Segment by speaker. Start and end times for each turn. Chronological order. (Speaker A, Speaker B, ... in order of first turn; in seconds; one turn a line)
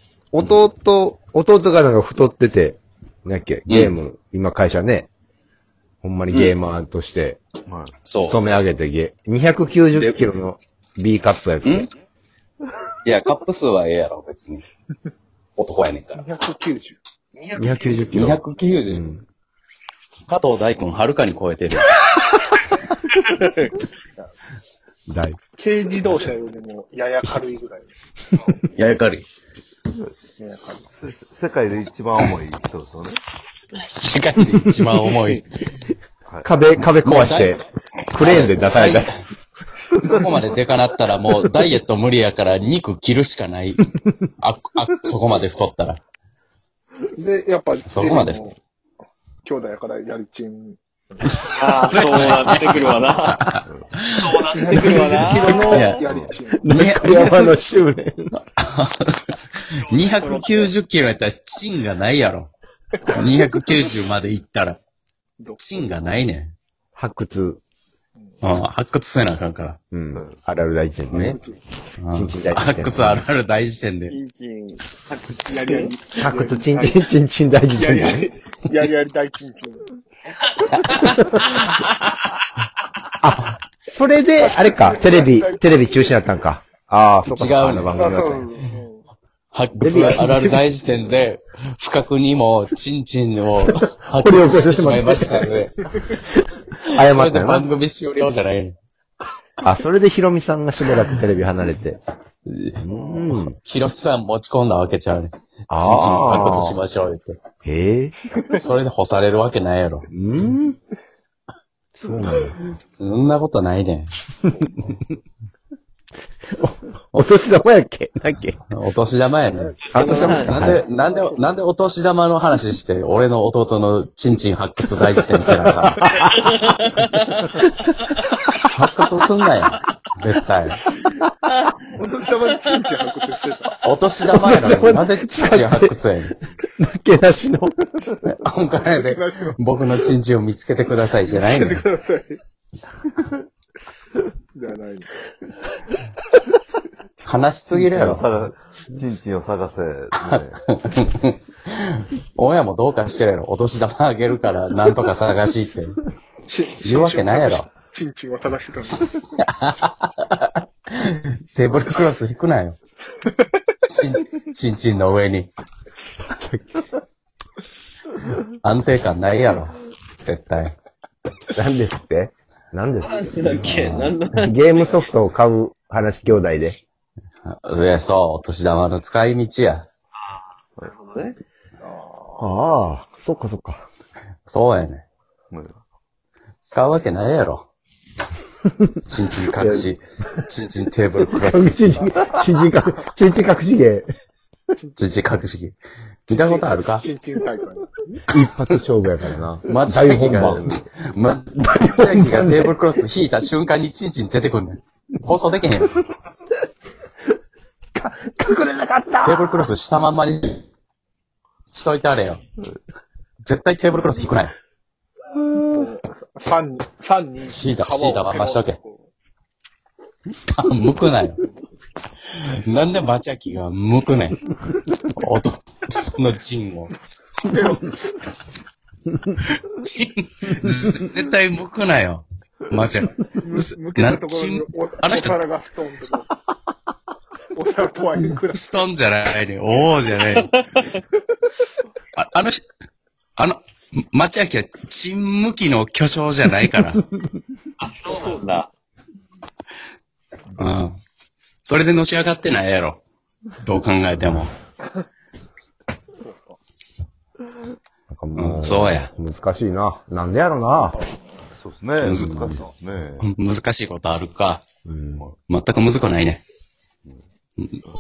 Speaker A: 0.3-5.1
Speaker B: 3.7-4.0
Speaker A: 6.0-7.4
Speaker C: 7.7-7.9
Speaker B: 8.1-8.4
Speaker A: 8.3-11.9
Speaker B: 9.9-10.2
Speaker B: 11.6-11.9
Speaker B: 13.0-14.7
Speaker B: 15.6-16.3
Speaker D: 16.2-17.0
Speaker E: 17.4-18.0
Speaker B: 17.6-19.1
Speaker A: 17.6-19.2
Speaker B: 20.3-22.0
Speaker E: 23.2-23.7
Speaker A: 25.1-25.4
Speaker D: 25.6-27.9
Speaker B: 28.8-29.3
Speaker D: 30.4-30.9
Speaker C: 31.0-33.2
Speaker B: 33.8-35.5
Speaker A: 36.4-39.1
Speaker B: 37.0-37.6
Speaker B: 38.1-39.1
Speaker B: 40.0-43.9
Speaker B: 44.4-46.0
Speaker D: 47.2-48.5
Speaker B: 47.9-48.4
Speaker D: 49.4-51.4
Speaker B: 51.3-56.0
Speaker E: 51.5-53.6
Speaker E: 54.2-56.0
Speaker D: 54.5-56.6
Speaker C: 56.0-56.4
Speaker A: 56.6-58.3
Speaker B: 56.7-57.6
Speaker B: 58.4-62.5
Speaker E: 60.2-60.6
Speaker B: 63.1-64.8
Speaker D: 65.4-65.9
Speaker B: 65.6-66.5
Speaker A: 67.0-67.6
Speaker B: 68.4-69.8
Speaker A: 69.9-71.4
Speaker B: 71.1-71.4
Speaker D: 71.2-71.6
Speaker B: 72.0-74.2
Speaker A: 72.1-73.2
Speaker E: 74.1-76.0
Speaker D: 75.5-77.0
Speaker A: 76.2-78.3
Speaker D: 77.8-79.9
Speaker B: 80.7-81.2
Speaker A: 81.0-81.4
Speaker A: 83.2-88.5
Speaker D: 84.4-86.1
Speaker B: 87.3-88.1
Speaker D: 88.0-89.0
Speaker B: 89.5-95.7
Speaker A: 89.8-90.6
Speaker A: 93.8-97.7
Speaker B: 96.9-98.8
Speaker A: 99.6-102.0
Speaker B: 102.5-107.4
Speaker A: 102.8-103.5
Speaker A: 105.7-106.8
Speaker A: 107.7-108.2
Speaker B: 108.4-110.1
Speaker A: 110.1-110.8
Speaker A: 112.0-112.6
Speaker B: 113.0-114.8
Speaker A: 116.6-118.6
Speaker B: 118.7-126.2
Speaker E: 119.9-120.5
Speaker A: 120.5-120.8
Speaker A: 125.3-126.5
Speaker E: 126.3-127.6
Speaker B: 128.7-130.9
Speaker D: 132.0-133.8
Speaker B: 133.8-136.4
Speaker A: 134.2-135.9
Speaker A: 136.8-138.2
Speaker B: 138.2-141.8
Speaker D: 139.1-139.6
Speaker D: 141.3-142.4
Speaker D: 144.5-145.1
Speaker B: 147.2-148.2
Speaker C: 147.7-150.6
Speaker B: 150.2-156.0
Speaker D: 156.5-159.2
Speaker B: 156.8-157.7
Speaker B: 159.4-162.8
Speaker B: 163.9-165.5
Speaker A: 166.3-166.7
Speaker B: 168.6-170.8
Speaker A: 171.5-173.7
Speaker E: 173.0-175.0
Speaker B: 173.5-174.1
Speaker A: 174.4-176.8
Speaker B: 177.4-179.9
Speaker E: 180.8-181.4
Speaker D: 181.8-182.5
Speaker A: 182.4-183.9
Speaker B: 184.5-185.1
Speaker C: 185.5-185.8
Speaker B: 186.6-187.7
Speaker A: 188.6-189.0
Speaker B: 189.1-192.0
Speaker A: 189.6-189.9
Speaker A: 191.4-194.1
Speaker B: 195.0-195.8
Speaker B: 196.3-197.1
Speaker D: 196.3-198.1
Speaker A: 198.3-200.7
Speaker B: 199.7-206.0
Speaker C: 199.7-200.8
Speaker A: 201.6-202.8
Speaker A: 208.0-209.7
Speaker B: 209.2-210.7
Speaker B: 211.7-212.4
Speaker B: 213.4-214.5
Speaker A: 215.5-215.8
Speaker D: 215.7-219.1
Speaker B: 217.5-218.8
Speaker B: 220.5-221.4
Speaker B: 222.3-224.4
Speaker B: 225.1-226.9
Speaker D: 227.5-227.9
Speaker B: 229.6-235.4
Speaker D: 233.4-236.3
Speaker D: 237.5-238.7
Speaker B: 238.5-240.5
Speaker E: 240.5-241.0
Speaker B: 242.2-242.7
Speaker B: 243.4-247.0
Speaker E: 247.8-248.7
Speaker B: 250.6-251.0
Speaker B: 251.6-253.0
Speaker B: 253.6-254.5
Speaker D: 256.2-256.6
Speaker A: 258.1-261.0
Speaker B: 258.4-259.1
Speaker D: 260.9-261.2
Speaker C: 261.5-263.3
Speaker B: 262.0-262.6
Speaker B: 263.2-264.6
Speaker A: 264.9-265.3
Speaker B: 265.5-266.4